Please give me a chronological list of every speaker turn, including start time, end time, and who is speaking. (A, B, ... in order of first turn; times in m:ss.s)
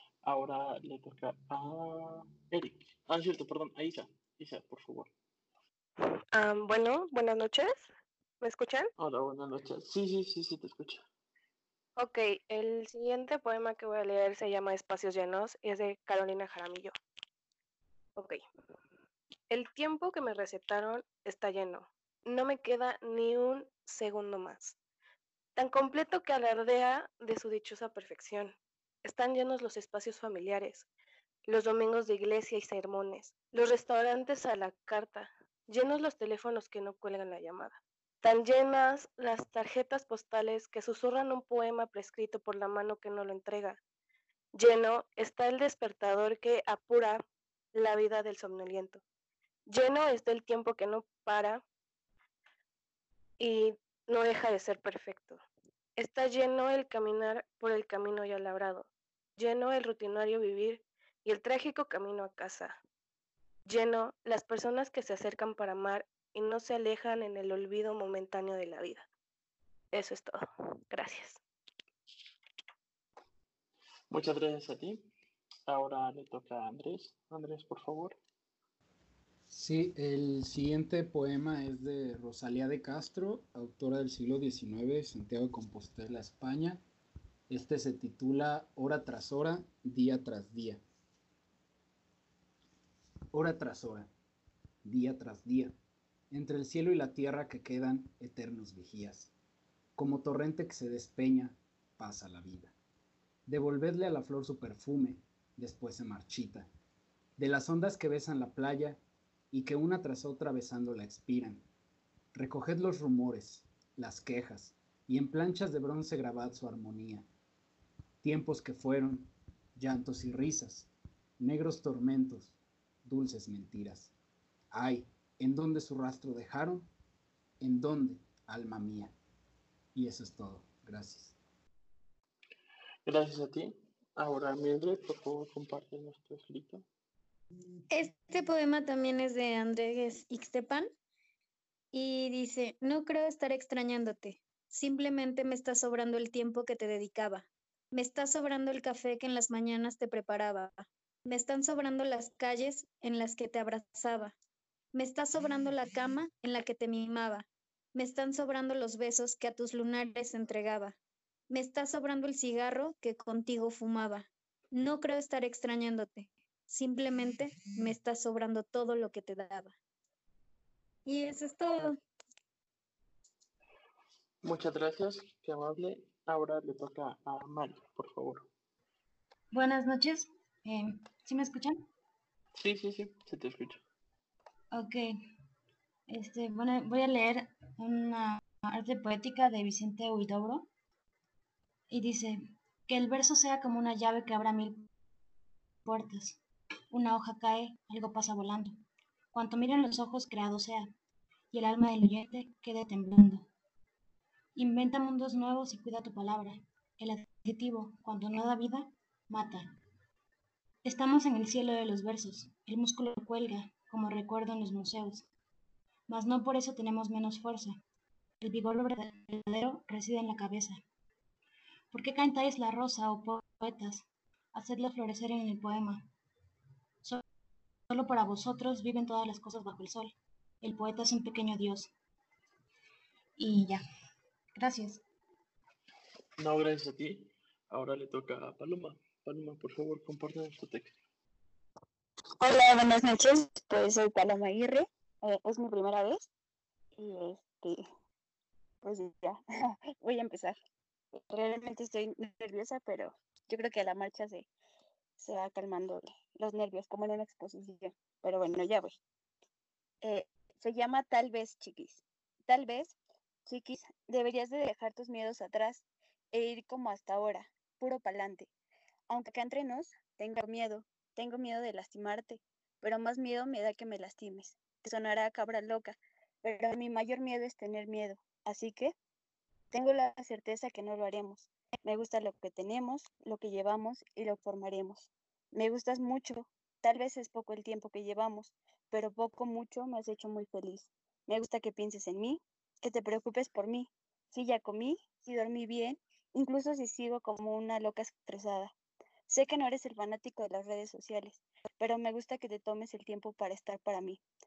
0:00.2-0:05.1 A
0:06.0-0:08.9 B
0:09.0-0:11.0 A
0:12.0-0:16.9 B
0:18.2-0:18.4 B
0:19.5-0:24.8 B
0:25.6-0:30.9 B
0:31.5-0:43.8 B
0:44.5-0:47.2 B
0:47.7-0:49.0 B
0:49.7-0:51.6 B
0:53.4-0:55.4 B
0:56.0-1:02.8 B
1:03.6-1:09.0 B
1:09.9-1:11.4 B
1:14.1-1:15.0 A
1:15.7-1:18.2 A
1:19.5-1:26.8 C
1:27.5-1:30.8 C
1:33.3-1:34.1 C
1:34.8-1:35.7 C
1:36.3-1:39.3 C
1:40.0-1:42.7 C
1:43.5-1:46.7 C
1:47.4-1:49.0 C
1:49.5-1:51.6 C
1:52.3-1:57.3 C
1:58.2-2:04.1 C
2:04.7-2:06.9 C
2:07.6-2:09.1 C
2:09.9-2:11.3 C
2:13.0-2:16.8 A
2:17.9-2:20.9 D
2:21.9-2:34.3 D
2:34.9-2:41.0 D
2:41.5-2:49.7 D
2:51.0-2:52.0 D
2:54.4-2:58.5 A
2:59.5-3:01.9 E
3:02.5-3:03.8 A
3:04.7-3:05.2 E
3:06.1-3:10.7 E
3:11.9-3:14.9 E
3:15.8-3:16.4 E
3:16.9-3:20.9 E
3:21.5-3:23.5 E
3:24.6-3:29.8 E
3:30.8-3:35.3 E
3:36.1-3:37.8 E
3:38.4-3:40.8 E
3:41.9-3:46.1 E
3:47.9-3:51.9 E
3:53.4-3:53.8 E
3:54.5-3:55.0 E
3:56.4-4:01.0 A
4:02.4-4:06.3 F
4:07.0-4:07.8 F
4:08.8-4:09.4 F
4:10.0-4:10.6 F
4:11.2-4:14.5 F
4:15.2-4:19.0 F
4:20.0-4:28.5 F
4:29.1-4:38.9 F
4:39.7-4:58.7 F
4:59.3-5:04.2 F